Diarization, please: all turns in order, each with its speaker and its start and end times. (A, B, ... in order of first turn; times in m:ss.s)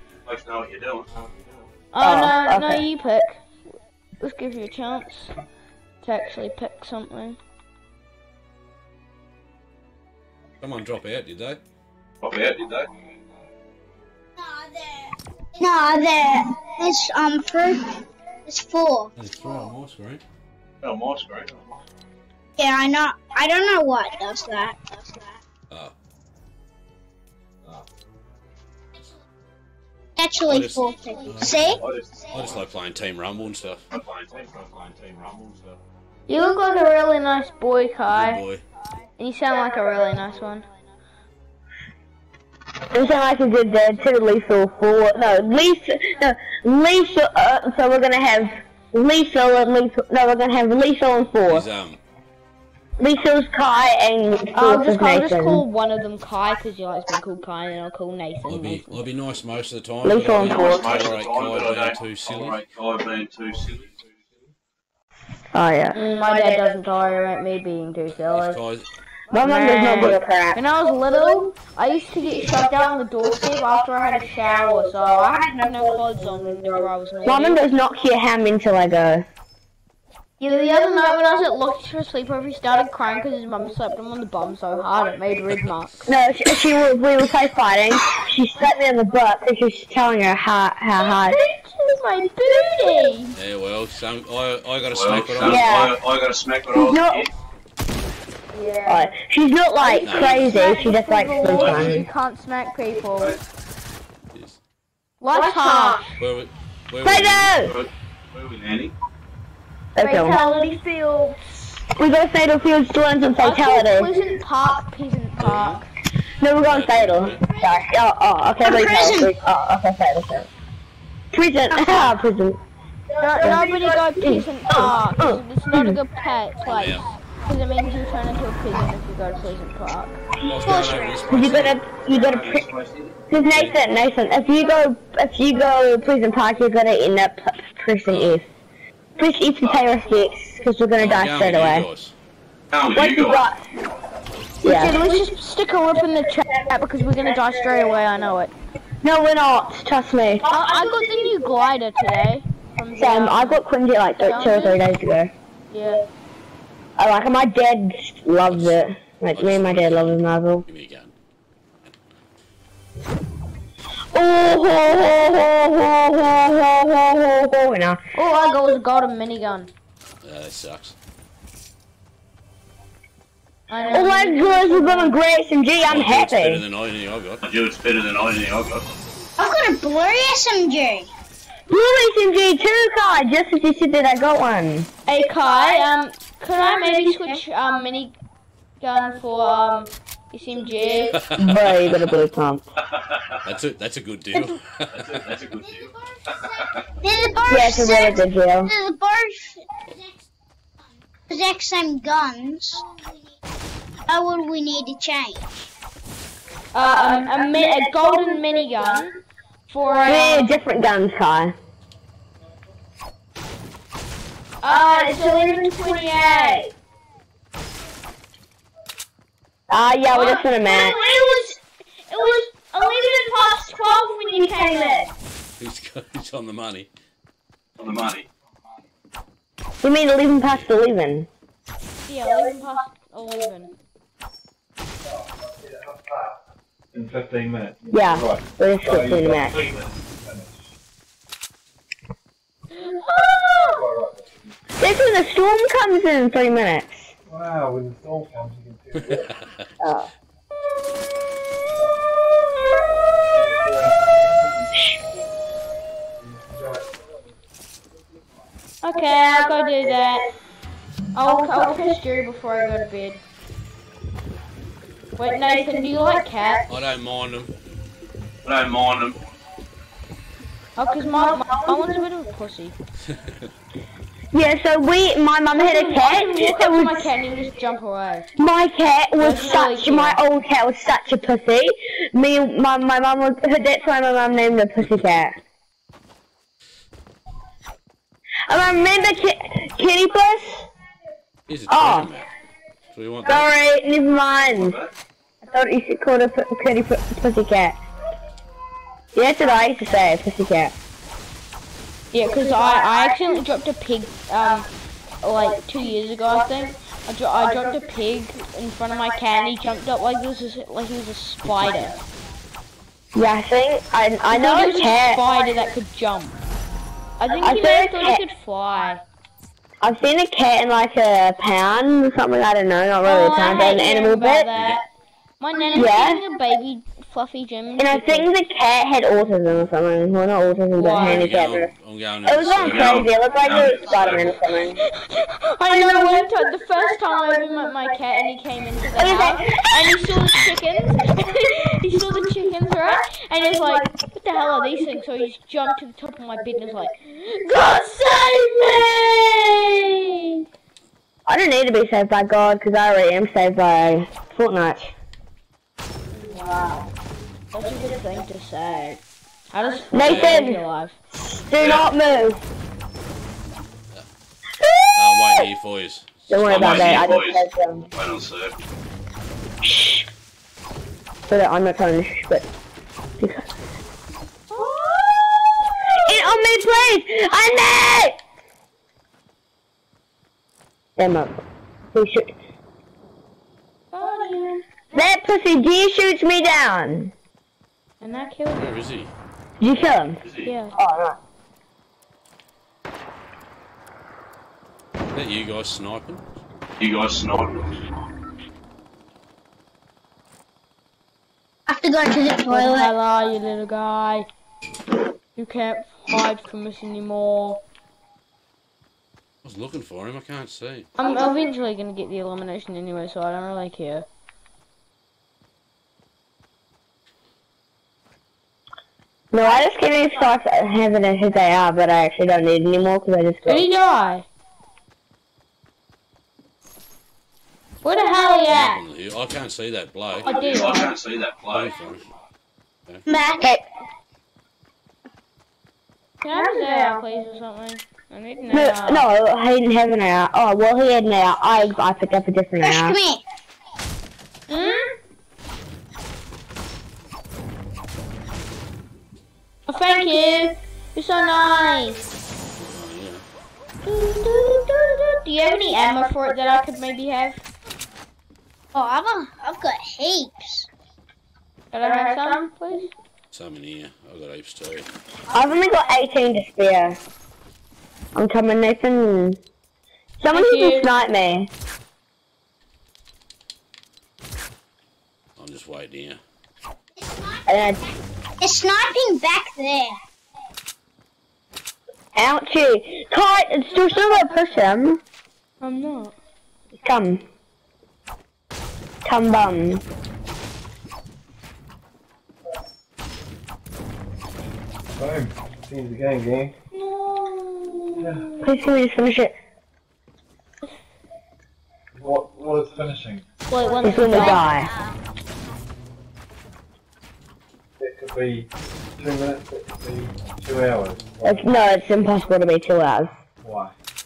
0:00.2-0:01.2 A
0:01.9-0:03.4 B
0:02.0-0:02.8 C
0:04.2-0:05.3 B
0:06.0-0:07.4 B
0:10.6-0:11.6 D
0:12.2-0:12.9 A
0:14.4-0:19.1 E
0:19.2-0:20.2 D
0:20.8-0:21.6 A
0:22.6-0:25.4 E
0:30.2-0:32.3 E
0:30.5-0:33.8 D
0:31.6-0:32.6 A
0:33.9-0:35.8 A
0:36.3-0:38.4 B
0:38.1-0:38.6 D
0:39.2-0:40.6 B
0:42.9-0:51.7 C
0:51.5-0:52.0 D
0:53.0-0:55.6 C
0:54.5-0:59.0 B
0:58.5-1:02.6 D
1:00.0-1:00.9 C
1:00.3-1:04.0 A
1:05.5-1:06.0 C
1:05.9-1:08.6 B
1:08.2-1:08.9 D
1:09.3-1:10.6 C
1:09.3-1:17.6 B
1:17.2-1:19.2 C
1:20.4-1:26.1 B
1:26.0-1:31.4 C
1:31.0-1:33.3 B
1:33.3-1:35.7 D
1:34.8-1:37.3 A
1:35.4-1:36.0 C
1:36.7-1:37.3 C
1:38.5-1:39.1 B
1:38.8-1:42.0 C
1:39.8-1:43.4 B
1:40.0-1:40.6 D
1:41.4-1:41.9 A
1:41.7-1:42.0 F
1:44.3-1:44.6 D
1:45.2-1:46.0 B
1:45.3-1:45.7 C
1:46.2-1:47.6 D
1:47.0-1:47.8 C
1:47.6-1:48.9 A
1:49.9-1:50.4 C
1:50.0-1:51.7 B
1:52.0-1:54.1 C
1:53.4-1:55.8 B
1:55.4-1:55.8 D
1:56.4-2:00.5 C
1:56.6-1:57.5 D
1:58.6-1:59.3 E
2:01.3-2:02.6 C
2:01.8-2:02.2 D
2:03.2-2:10.2 B
2:03.4-2:06.0 C
2:06.6-2:07.1 D
2:10.4-2:11.8 D
2:10.6-2:11.4 E
2:11.3-2:12.7 C
2:11.4-2:13.2 A
2:13.3-2:18.4 C
2:13.5-2:13.8 D
2:18.1-2:18.4 D
2:19.2-2:21.9 C
2:21.0-2:22.1 D
2:22.7-2:23.4 A
2:22.9-2:23.6 C
2:24.6-2:25.1 C
2:24.6-2:28.5 B
2:29.0-2:30.6 C
2:30.4-2:33.6 B
2:32.9-2:35.3 C
2:34.2-2:34.9 B
2:35.7-2:36.0 B
2:37.0-2:40.6 C
2:38.5-2:38.8 D
2:39.3-2:41.1 D
2:44.1-2:48.0 C
2:48.1-2:49.7 B
2:50.2-2:51.0 D
2:53.7-2:55.2 B
2:53.9-2:56.6 C
2:55.8-2:57.4 D
2:57.4-2:58.8 A
2:59.4-3:01.1 E
3:01.7-3:04.9 C
3:05.1-3:08.1 B
3:06.9-3:07.4 E
3:08.8-3:11.2 B
3:11.1-3:12.2 D
3:11.4-3:12.6 C
3:13.4-3:15.4 D
3:14.9-3:16.8 A
3:17.0-3:20.0 E
3:17.5-3:18.7 C
3:21.3-3:22.9 E
3:24.1-3:25.7 E
3:26.7-3:29.2 B
3:29.7-3:30.5 B
3:30.0-3:31.5 C
3:34.6-3:36.7 B
3:39.7-3:41.0 C
3:40.1-3:45.1 B
3:45.6-3:46.9 D
3:47.8-3:48.3 A
3:49.8-3:51.3 C
3:52.0-3:53.7 B
3:55.4-3:56.4 F
3:56.9-4:00.5 F
3:57.9-3:59.7 C
3:59.5-3:59.9 A
4:02.7-4:03.8 B
4:03.6-4:04.5 F
4:04.8-4:07.1 C
4:07.3-4:09.3 F
4:08.9-4:09.6 D
4:09.8-4:10.1 C
4:13.3-4:14.7 F
4:16.2-4:16.9 F
4:18.8-4:20.3 B
4:21.1-4:23.2 B
4:25.2-4:26.6 B
4:26.7-4:27.5 D
4:28.4-4:29.2 A
4:30.8-4:32.8 B
4:31.4-4:31.8 C
4:34.3-4:37.1 C
4:35.5-4:38.3 B
4:38.4-4:45.4 C
4:39.2-4:40.2 B
4:48.5-4:50.7 C
4:51.5-4:52.3 D
4:51.7-4:52.1 C
4:52.9-4:53.5 D
4:53.2-4:54.8 C
4:54.5-4:54.8 A
4:55.5-4:57.8 C
4:59.1-5:00.7 C
5:02.1-5:04.7 B
5:05.2-5:12.0 B
5:13.1-5:15.2 C
5:14.3-5:16.4 B
5:17.2-5:19.0 B
5:17.4-5:18.2 C
5:19.8-5:24.5 C
5:23.0-5:24.8 B
5:24.5-5:24.8 D
5:25.4-5:28.3 B
5:25.7-5:26.2 C
5:27.8-5:31.7 C
5:30.8-5:31.3 B
5:31.0-5:33.1 D
5:32.2-5:34.8 C
5:32.6-5:34.6 A
5:34.6-5:50.1 B
5:39.0-5:40.0 C
5:51.2-5:54.9 C
5:56.1-5:56.9 B
5:57.5-6:01.0 B
5:59.9-6:02.4 C
6:00.0-6:00.4 D
6:01.6-6:01.9 A
6:04.6-6:04.9 C
6:04.9-6:07.0 D
6:06.3-6:07.9 C
6:06.4-6:08.5 A
6:09.6-6:10.1 C
6:11.3-6:12.4 C
6:13.2-6:13.5 C
6:14.5-6:15.2 B
6:16.0-6:18.2 C
6:21.0-6:21.4 C
6:21.9-6:22.3 C
6:23.9-6:24.6 B
6:24.9-6:27.1 C
6:28.0-6:28.7 B
6:28.6-6:29.1 D
6:29.6-6:30.2 C
6:30.2-6:30.5 A
6:30.4-6:30.7 B
6:30.7-6:31.2 C
6:35.1-6:36.2 D
6:36.8-6:37.7 A
6:41.7-6:42.9 E
6:42.5-6:44.2 B
6:45.4-6:47.6 B
6:49.4-6:50.9 D
6:51.0-6:54.0 B
6:51.1-6:51.4 E
6:59.3-7:03.7 C
7:03.4-7:04.2 B
7:07.8-7:08.8 B
7:08.5-7:10.4 D
7:10.2-7:10.9 B
7:10.3-7:11.8 A
7:11.5-7:12.0 D
7:13.0-7:13.6 E
7:16.2-7:19.1 B
7:18.5-7:23.0 C
7:22.6-7:23.2 E
7:24.5-7:24.9 B
7:29.7-7:32.0 B
7:32.6-7:33.2 D
7:33.8-7:37.4 B
7:38.7-7:40.7 E
7:41.7-7:42.9 B
7:43.3-7:44.9 D
7:45.3-7:47.0 C
7:48.1-7:49.4 C
7:50.2-7:51.5 C
7:50.3-7:50.9 B
7:55.4-7:56.2 D
7:57.0-8:00.0 E
7:57.4-7:57.8 C
8:02.1-8:05.0 C
8:05.6-8:06.1 B
8:06.8-8:07.2 C
8:09.0-8:09.8 C
8:15.0-8:16.5 F
8:16.7-8:18.2 B
8:18.0-8:18.4 F
8:18.4-8:19.3 C
8:21.9-8:23.2 F
8:23.5-8:24.5 B
8:23.8-8:24.7 C
8:24.1-8:24.9 E
8:27.8-8:31.5 F
8:31.2-8:33.1 C
8:33.4-8:33.7 F